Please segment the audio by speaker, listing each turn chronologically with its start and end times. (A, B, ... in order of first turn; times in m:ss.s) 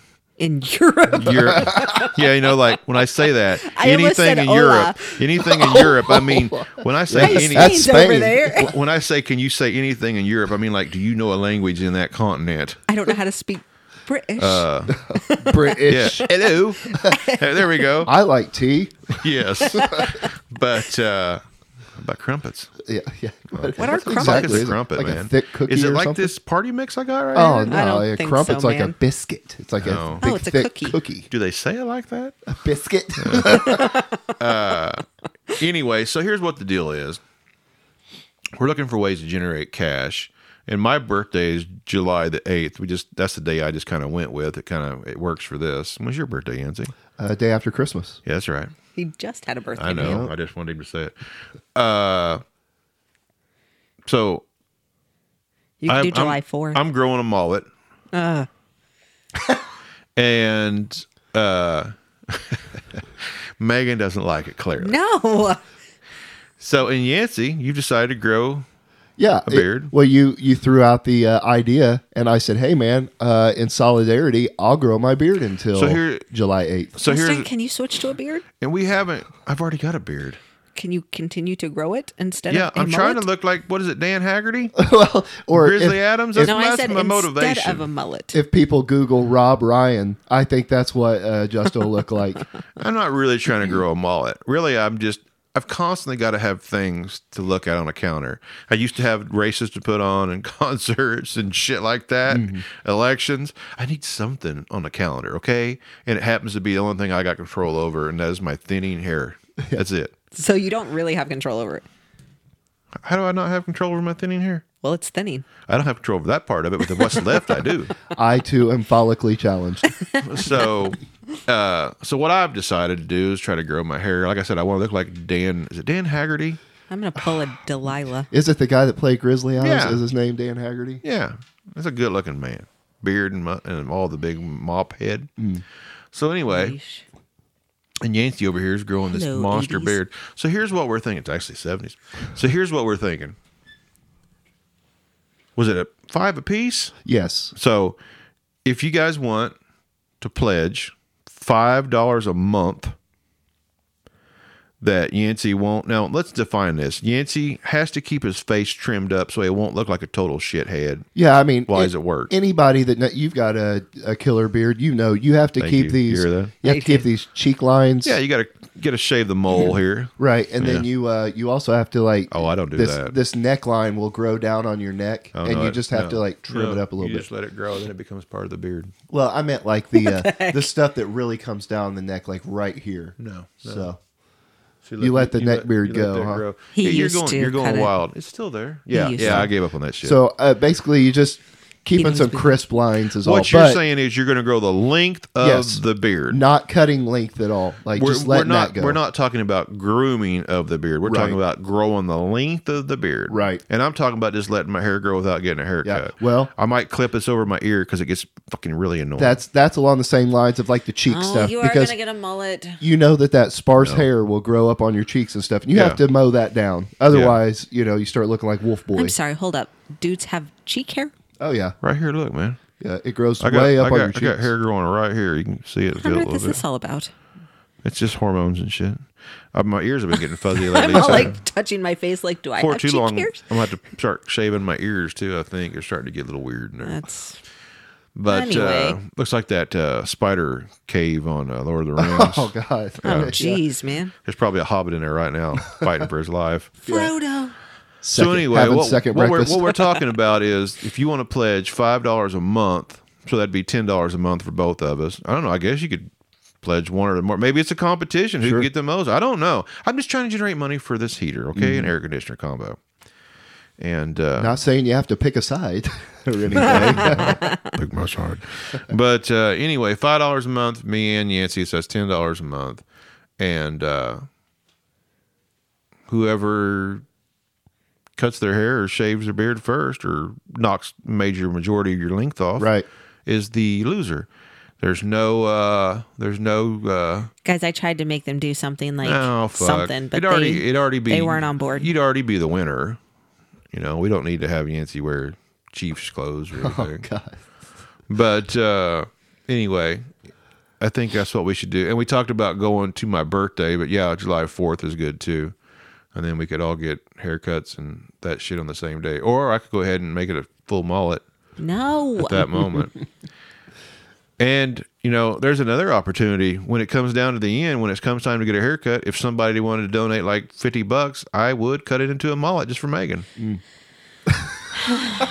0:00.4-0:02.7 A
0:01.1-0:12.8 B
0:03.6-0:05.9 A
0:05.6-0:08.6 C
0:07.2-0:08.8 A
0:12.9-0:17.9 A
0:14.4-0:15.0 B
0:15.0-0:16.3 C
0:15.8-0:18.1 B
0:18.0-0:19.2 C
0:19.2-0:21.4 B
0:19.6-0:20.3 A
0:22.0-0:22.7 B
0:22.8-0:26.3 C
0:23.5-0:27.6 B
0:23.8-0:24.7 A
0:27.3-0:31.3 C
0:27.4-0:29.0 A
0:29.8-0:30.2 B
0:30.2-0:31.0 A
0:31.3-0:32.4 B
0:32.5-0:33.9 C
0:33.2-0:37.2 B
0:33.5-0:34.4 A
0:38.6-0:46.9 B
0:47.2-0:48.2 C
0:48.2-0:48.7 B
0:49.0-0:50.3 A
0:49.8-0:51.1 B
0:50.0-0:50.3 C
0:51.7-0:52.4 B
0:54.0-0:54.4 B
0:55.8-0:56.8 A
0:55.9-0:57.6 B
0:58.1-0:58.5 A
1:00.2-1:03.0 B
1:03.6-1:05.0 B
1:04.8-1:05.6 A
1:06.6-1:08.6 B
1:09.2-1:16.9 C
1:09.4-1:09.9 B
1:15.7-1:16.3 B
1:16.9-1:17.5 B
1:17.0-1:18.4 A
1:18.6-1:20.4 B
1:20.7-1:23.2 A
1:22.5-1:24.8 B
1:24.8-1:26.5 C
1:25.5-1:27.9 B
1:26.4-1:28.4 A
1:28.3-1:32.4 C
1:32.8-1:50.1 B
1:42.3-1:42.6 C
1:50.3-1:51.8 A
1:53.0-1:54.6 B
1:54.8-1:55.5 A
1:55.7-1:58.0 B
1:57.0-1:57.2 A
1:58.1-1:59.9 C
1:59.9-2:00.5 A
2:00.2-2:06.6 B
2:06.9-2:08.3 A
2:08.3-2:11.0 C
2:09.6-2:10.0 B
2:11.0-2:15.3 B
2:15.4-2:15.6 C
2:16.1-2:16.8 B
2:16.5-2:17.0 A
2:18.0-2:23.3 B
2:19.1-2:20.0 A
2:25.6-2:26.9 B
2:27.0-2:27.5 C
2:27.6-2:28.0 B
2:28.6-2:29.5 B
2:30.2-2:32.9 B
2:34.8-2:41.0 B
2:41.2-2:48.2 C
2:41.7-2:42.3 B
2:45.6-2:46.5 B
2:46.6-2:47.1 A
2:48.0-2:50.8 B
2:50.2-2:57.2 C
2:52.3-2:53.2 B
2:55.3-2:58.9 B
2:59.1-3:04.0 C
2:59.9-3:00.7 A
3:03.2-3:03.9 B
3:04.8-3:10.2 B
3:05.0-3:06.4 C
3:06.7-3:07.9 A
3:08.9-3:09.5 A
3:09.2-3:09.5 C
3:10.0-3:13.8 C
3:11.9-3:12.6 A
3:13.2-3:16.4 B
3:15.4-3:19.0 C
3:18.0-3:29.4 B
3:21.0-3:21.4 C
3:23.3-3:23.6 C
3:25.8-3:26.5 C
3:29.2-3:31.9 C
3:31.1-3:32.8 A
3:32.8-3:39.2 C
3:33.8-3:34.0 B
3:35.7-3:36.0 B
3:37.1-3:37.4 B
3:39.0-3:41.1 A
3:41.4-3:41.8 C
3:41.8-3:42.6 B
3:42.8-3:44.5 C
3:43.4-3:46.6 B
3:46.0-3:47.1 A
3:47.8-3:51.4 B
3:50.5-3:53.4 A
3:52.6-3:57.0 B
3:56.8-3:57.4 A
3:58.1-4:02.5 B
3:58.3-3:59.0 A
4:02.0-4:03.6 C
4:03.0-4:03.3 B
4:03.0-4:04.1 A
4:04.2-4:06.7 B
4:06.8-4:07.6 A
4:06.8-4:07.1 C
4:08.0-4:09.7 C
4:08.1-4:16.1 B
4:16.6-4:22.8 B
4:18.4-4:18.7 C
4:21.5-4:21.9 C
4:23.8-4:24.5 B
4:24.4-4:27.4 C
4:26.6-4:32.8 B
4:26.6-4:27.7 A
4:33.4-4:34.2 B
4:36.1-4:37.0 B
4:38.2-4:42.7 B
4:42.6-4:42.8 C
4:43.2-4:44.3 B
4:44.8-4:47.3 B
4:47.4-4:51.9 A
4:49.0-4:53.0 B
4:53.7-4:57.0 B
4:56.6-4:57.4 C
4:58.1-5:00.0 B
5:00.8-5:05.5 B
5:06.1-5:11.2 B
5:11.6-5:12.6 A
5:12.2-5:13.0 B
5:14.4-5:23.3 B